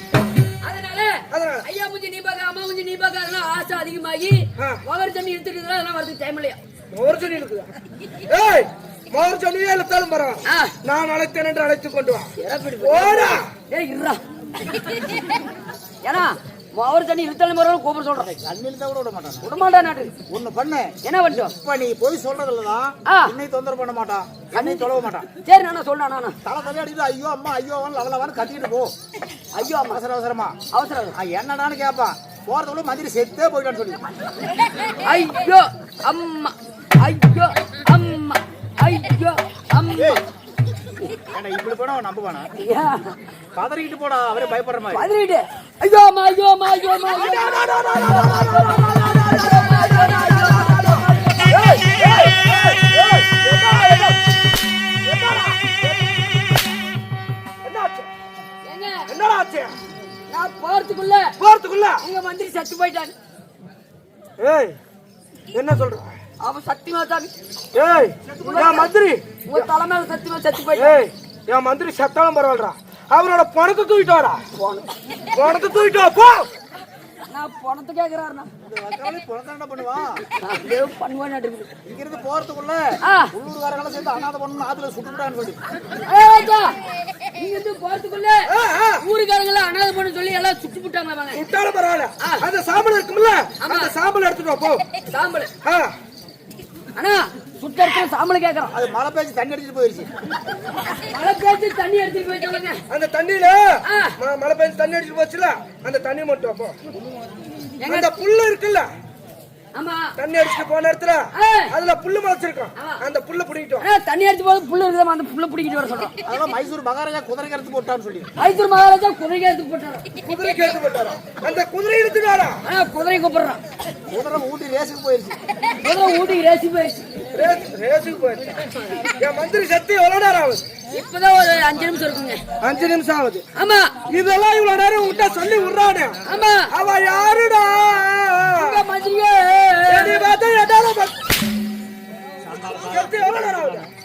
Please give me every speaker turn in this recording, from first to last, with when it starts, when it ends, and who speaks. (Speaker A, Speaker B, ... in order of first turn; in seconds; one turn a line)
Speaker A: 0.6-6.6
Speaker B: 1.3-1.6
Speaker B: 6.9-7.7
Speaker B: 8.3-12.3
Speaker A: 10.5-10.7
Speaker A: 12.4-14.2
Speaker B: 12.8-13.5
Speaker A: 16.0-18.3
Speaker C: 18.2-19.5
Speaker A: 19.4-20.1
Speaker C: 20.3-25.3
Speaker A: 21.0-21.5
Speaker A: 23.1-23.4
Speaker A: 24.5-26.4
Speaker C: 26.4-28.9
Speaker A: 29.5-30.0
Speaker C: 29.8-30.6
Speaker A: 30.7-31.1
Speaker C: 31.1-34.0
Speaker A: 35.0-40.2
Speaker C: 39.9-40.2
Speaker C: 41.3-42.5
Speaker A: 42.6-43.2
Speaker C: 43.6-45.1
Speaker A: 44.9-51.8
Speaker B: 47.1-54.2
Speaker B: 55.0-56.2
Speaker B: 57.6-58.1
Speaker A: 58.6-59.1
Speaker B: 59.1-59.8
Speaker A: 60.3-61.3
Speaker B: 61.4-62.0
Speaker A: 62.0-63.1
Speaker B: 64.4-64.8
Speaker B: 65.5-66.1
Speaker A: 66.4-67.3
Speaker B: 67.7-69.7
Speaker C: 68.3-68.8
Speaker A: 68.4-68.9
Speaker A: 69.5-70.9
Speaker B: 70.8-74.4
Speaker A: 74.5-74.9
Speaker B: 75.3-76.5
Speaker A: 77.3-78.5
Speaker C: 78.6-80.2
Speaker A: 80.4-81.7
Speaker C: 81.9-85.6
Speaker A: 83.0-83.3
Speaker A: 86.0-86.8
Speaker A: 87.3-91.4
Speaker B: 88.5-89.0
Speaker B: 91.3-94.8
Speaker A: 93.6-93.9
Speaker A: 95.1-95.5
Speaker B: 95.6-95.9
Speaker A: 97.0-98.8
Speaker C: 98.7-100.1
Speaker A: 101.0-102.8
Speaker B: 102.9-106.8
Speaker A: 103.8-104.1
Speaker A: 107.8-108.1
Speaker B: 107.9-108.9
Speaker A: 109.8-110.1
Speaker B: 110.2-113.9
Speaker A: 111.3-111.7
Speaker A: 112.8-113.0
Speaker A: 113.8-116.1
Speaker C: 116.2-118.3
Speaker A: 118.4-120.1
Speaker B: 120.2-122.6
Speaker A: 122.6-123.6
Speaker C: 124.1-125.4
Speaker A: 125.8-127.1
Speaker B: 127.3-128.6
Speaker B: 129.2-130.6
Speaker A: 130.9-132.4
Speaker B: 132.6-133.4
Speaker A: 133.6-134.0
Speaker B: 134.1-138.8
Speaker A: 136.2-136.7
Speaker A: 138.6-140.3
Speaker B: 139.9-141.1
Speaker C: 142.4-143.9
Speaker B: 142.8-143.9